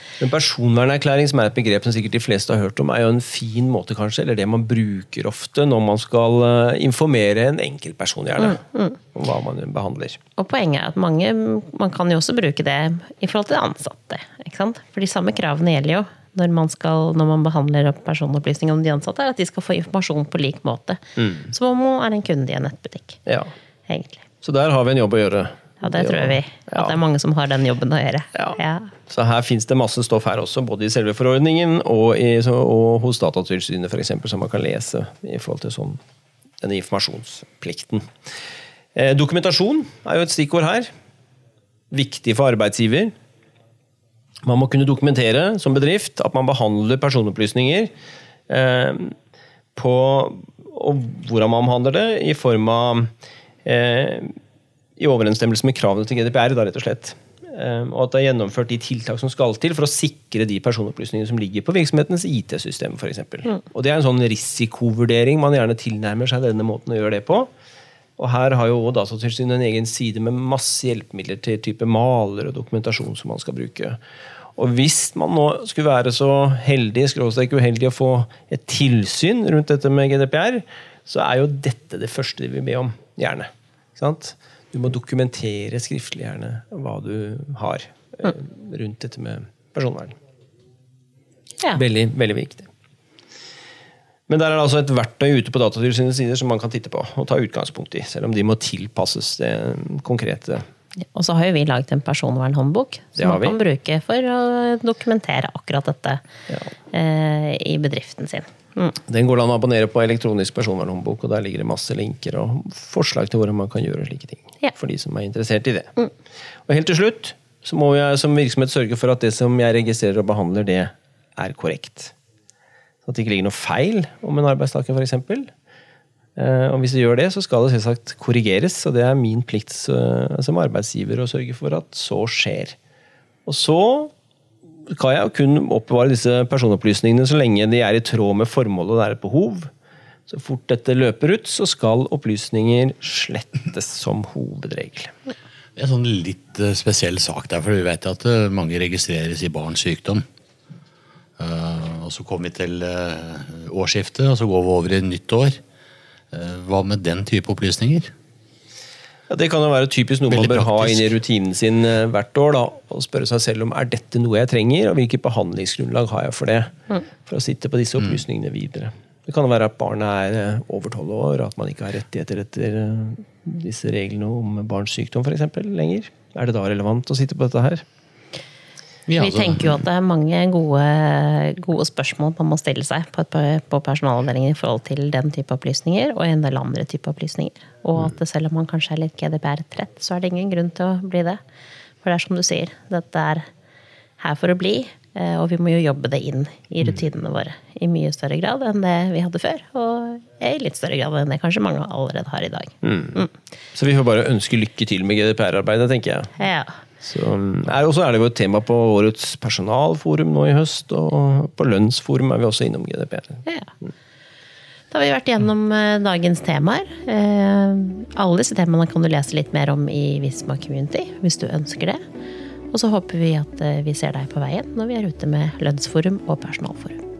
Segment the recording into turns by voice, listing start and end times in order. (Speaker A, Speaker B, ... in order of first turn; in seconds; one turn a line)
Speaker A: 0.2-8.6
Speaker B: 8.4-9.0
Speaker A: 9.1-10.2
Speaker B: 10.4-23.2
Speaker A: 21.2-21.5
Speaker B: 23.9-24.2
Speaker A: 24.4-26.9
Speaker B: 25.8-28.9
Speaker A: 29.1-36.0
Speaker A: 36.6-38.1
Speaker A: 39.0-40.9
Speaker A: 41.9-43.1
Speaker A: 44.5-47.9
Speaker A: 48.5-49.1
Speaker A: 49.8-53.1
Speaker A: 53.6-54.3
Speaker A: 55.0-67.5
Speaker A: 68.2-74.0
Speaker A: 74.6-90.2
Speaker A: 91.8-92.7
Speaker A: 94.3-100.6
Speaker B: 101.1-106.2
Speaker A: 103.2-103.6
Speaker B: 106.9-109.0
Speaker A: 109.1-115.9
Speaker A: 116.7-122.1
Speaker A: 123.1-125.5
Speaker A: 126.4-132.8
Speaker A: 133.5-134.1
Speaker A: 134.9-139.7
Speaker A: 140.3-145.1
Speaker C: 145.8-150.2
Speaker C: 151.4-155.6
Speaker C: 156.3-158.1
Speaker A: 159.3-166.7
Speaker C: 160.3-161.0
Speaker A: 167.2-177.8
Speaker C: 179.1-179.8
Speaker B: 179.2-191.4
Speaker B: 192.0-193.4
Speaker B: 194.2-203.3
Speaker A: 202.8-203.2
Speaker A: 203.8-206.4
Speaker B: 206.4-206.7
Speaker A: 207.0-213.4
Speaker B: 214.9-222.0
Speaker B: 222.7-227.0